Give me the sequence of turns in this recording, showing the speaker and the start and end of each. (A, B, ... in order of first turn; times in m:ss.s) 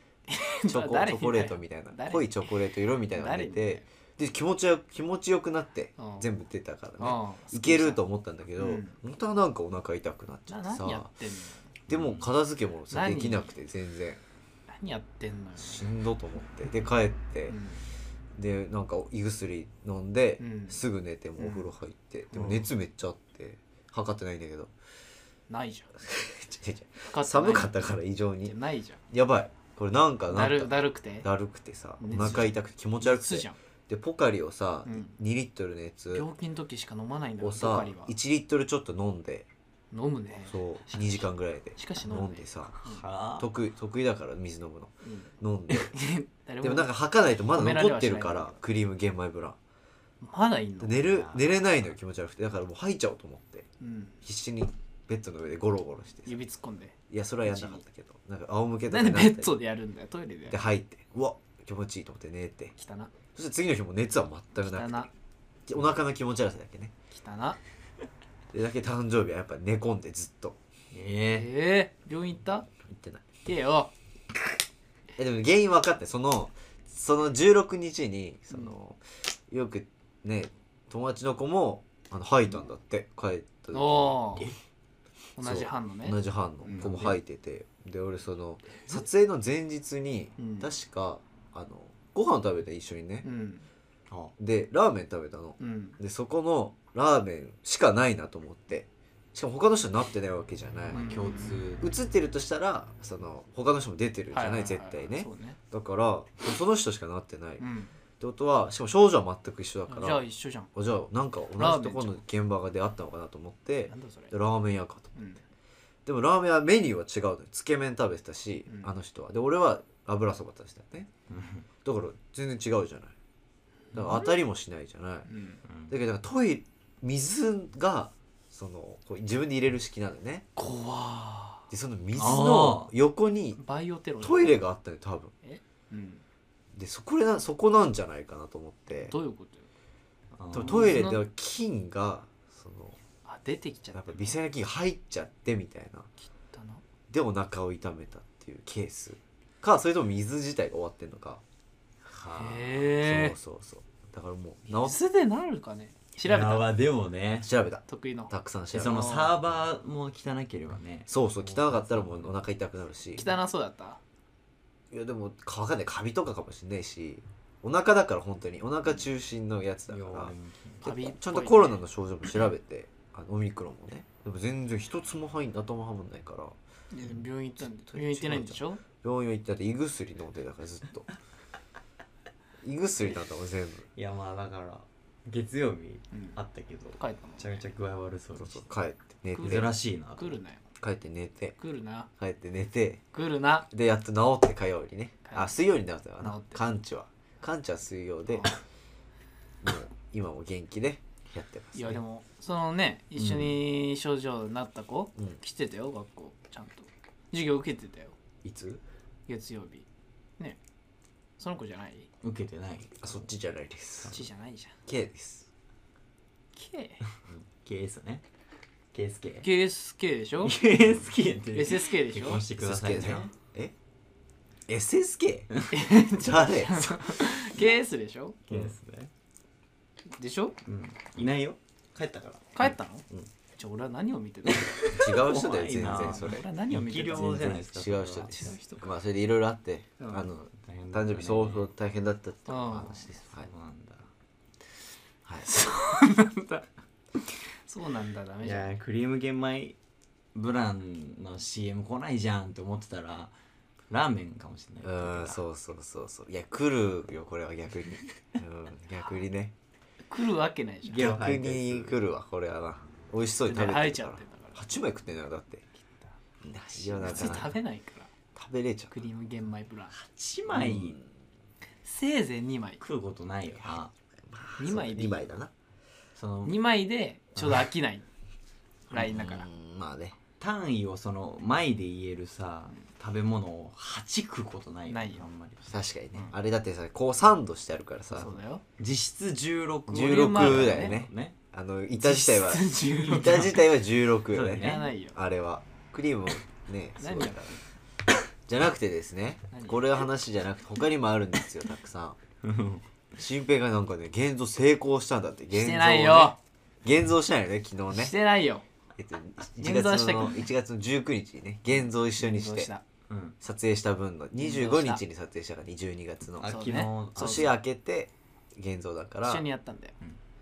0:00.3-0:02.5 A
0:00.7-0:11.1 B
0:03.1-0:03.8 A
0:06.0-0:06.3 A
0:07.0-0:08.0 A
0:08.6-0:09.0 A
0:10.5-0:11.7 A
0:11.9-0:14.2 B
0:11.9-0:12.3 C
0:12.9-0:13.5 A
0:14.8-0:15.9 A
0:15.6-0:17.6 B
0:17.5-0:17.8 A
0:18.4-0:24.7 B
0:20.4-0:20.8 A
0:21.4-0:21.7 A
0:25.5-0:25.9 A
0:26.0-0:28.6 B
0:27.1-0:27.8 A
0:28.4-0:29.0 A
0:29.1-0:36.3 B
0:30.3-0:31.3 A
0:32.0-0:33.6 A
0:34.9-0:35.2 A
0:36.1-0:38.1 A
0:37.4-0:39.5 B
0:39.9-0:41.2 A
0:40.5-0:42.8 B
0:41.8-0:43.0 A
0:42.8-0:43.5 C
0:43.4-0:45.9 B
0:45.0-0:46.9 A
0:46.6-0:49.6 B
0:47.4-0:48.6 A
0:50.2-0:51.1 A
0:50.8-0:53.7 B
0:51.0-0:51.8 C
0:53.8-0:54.2 A
0:54.2-0:56.4 B
0:56.3-0:57.8 A
0:57.1-0:59.6 B
0:58.9-1:00.6 A
1:00.5-1:02.7 B
1:02.8-1:03.1 A
1:03.4-1:05.1 B
1:04.6-1:05.1 A
1:05.7-1:06.9 B
1:07.1-1:07.6 A
1:08.5-1:10.6 B
1:10.9-1:11.5 C
1:11.3-1:12.7 A
1:12.8-1:13.2 B
1:13.4-1:13.9 A
1:15.2-1:24.5 B
1:23.7-1:24.5 A
1:25.4-1:27.1 A
1:25.4-1:33.3 B
1:26.8-1:27.2 C
1:30.4-1:30.7 A
1:33.2-1:33.6 A
1:34.4-1:41.1 B
1:35.6-1:36.0 A
1:40.9-1:41.9 C
1:40.9-1:41.6 A
1:41.8-1:47.6 B
1:44.3-1:45.6 A
1:47.6-1:47.9 A
1:48.2-1:50.2 B
1:49.9-1:50.7 A
1:50.7-1:55.1 B
1:51.6-1:52.2 A
1:53.9-1:54.3 A
1:55.2-1:55.4 A
1:56.1-2:01.1 B
2:01.3-2:01.6 C
2:01.8-2:03.1 B
2:03.9-2:04.4 A
2:03.9-2:05.3 B
2:05.3-2:05.6 A
2:05.9-2:10.5 B
2:10.6-2:11.7 A
2:11.7-2:13.6 B
2:12.2-2:12.9 C
2:13.6-2:14.6 A
2:14.2-2:15.3 B
2:15.4-2:16.2 A
2:16.8-2:19.2 B
2:19.1-2:19.7 A
2:20.4-2:20.9 C
2:20.5-2:23.0 B
2:20.5-2:21.2 A
2:23.2-2:24.4 A
2:23.9-2:26.1 B
2:26.3-2:26.8 A
2:27.1-2:31.4 B
2:32.1-2:32.8 C
2:32.4-2:33.4 A
2:33.0-2:35.0 B
2:34.8-2:36.7 A
2:36.2-2:37.5 C
2:37.4-2:39.1 B
2:37.9-2:39.4 A
2:38.7-2:42.3 C
2:41.1-2:43.3 B
2:43.2-2:44.0 A
2:44.9-2:56.6 B
2:49.9-2:50.8 C
2:50.8-2:51.8 A
2:56.9-2:58.8 A
2:57.1-3:01.1 B
3:02.6-3:03.9 B
3:04.0-3:08.7 C
3:07.0-3:07.6 A
3:08.4-3:09.7 B
3:09.4-3:10.6 A
3:09.4-3:10.4 C
3:10.8-3:11.6 B
3:11.6-3:12.1 A
3:12.2-3:13.0 B
3:13.1-3:13.7 A
3:13.7-3:18.5 B
3:15.2-3:15.6 A
3:16.2-3:16.6 A
3:18.3-3:18.5 A
3:19.6-3:22.0 B
3:21.8-3:28.2 A
3:23.2-3:23.6 C
3:28.4-3:28.8 B
3:29.3-3:29.8 A
3:31.4-3:32.1 A
3:32.2-3:33.1 C
3:33.0-3:34.2 B
3:34.1-3:34.8 A
3:34.9-3:35.5 B
3:36.6-3:37.0 A
3:37.5-3:38.2 C
3:38.9-3:39.5 C
3:39.4-3:40.6 A
3:40.4-3:43.3 C
3:41.5-3:42.4 A
3:42.6-3:43.7 B
3:44.7-3:45.5 B
3:45.7-3:48.4 A
3:46.2-3:47.0 B
3:48.5-3:48.7 B
3:48.5-3:49.1 C
3:50.2-3:50.6 A
3:50.6-3:53.2 C
3:52.6-3:53.0 A
3:53.6-3:55.0 A
3:54.4-3:58.6 C
3:54.9-3:56.4 B
3:55.8-3:57.6 A
3:57.1-4:03.5 B
3:58.2-3:58.8 A
4:00.0-4:00.3 A
4:00.5-4:01.7 C
4:02.5-4:03.1 A
4:03.4-4:04.1 C
4:05.4-4:06.6 A
4:07.7-4:08.7 A
4:08.4-4:09.8 C
4:10.3-4:13.3 C
4:13.9-4:15.4 C
4:14.8-4:19.5 B
4:20.1-4:21.1 A
4:20.8-4:22.0 C
4:21.0-4:25.6 B
4:23.5-4:24.6 A
4:26.4-4:27.6 B
4:26.9-4:27.5 C
4:27.0-4:28.1 A
4:28.3-4:29.0 B
4:28.9-4:29.9 A
4:29.9-4:31.0 C
4:30.5-4:31.1 B
4:31.8-4:32.8 A
4:32.8-4:33.9 C
4:34.3-4:35.5 B
4:34.6-4:35.3 A
4:36.2-4:36.6 C
4:36.4-4:38.1 A
4:37.4-4:37.6 C
4:38.9-4:39.5 A
4:38.9-4:40.2 B
4:40.4-4:45.6 C
4:44.9-4:45.3 A
4:45.7-4:48.4 B
4:48.2-4:48.6 A
4:48.8-4:51.4 C
4:49.9-4:51.0 A
4:49.9-4:57.6 B
4:52.0-4:53.6 A
4:53.0-4:53.5 C
4:54.3-4:54.9 C
4:54.6-4:55.2 A
4:57.0-4:57.5 A
4:58.5-5:02.2 B
4:59.5-4:59.9 A
5:02.4-5:02.8 C
5:03.2-5:08.1 B
5:05.5-5:06.4 A
5:07.9-5:08.6 A
5:09.0-5:12.7 B
5:09.6-5:10.4 A
5:12.2-5:12.8 A
5:13.1-5:13.4 C
5:13.4-5:16.5 B
5:14.4-5:15.0 A
5:16.4-5:17.5 C
5:16.4-5:17.5 A
5:17.2-5:19.4 B
5:19.2-5:20.0 A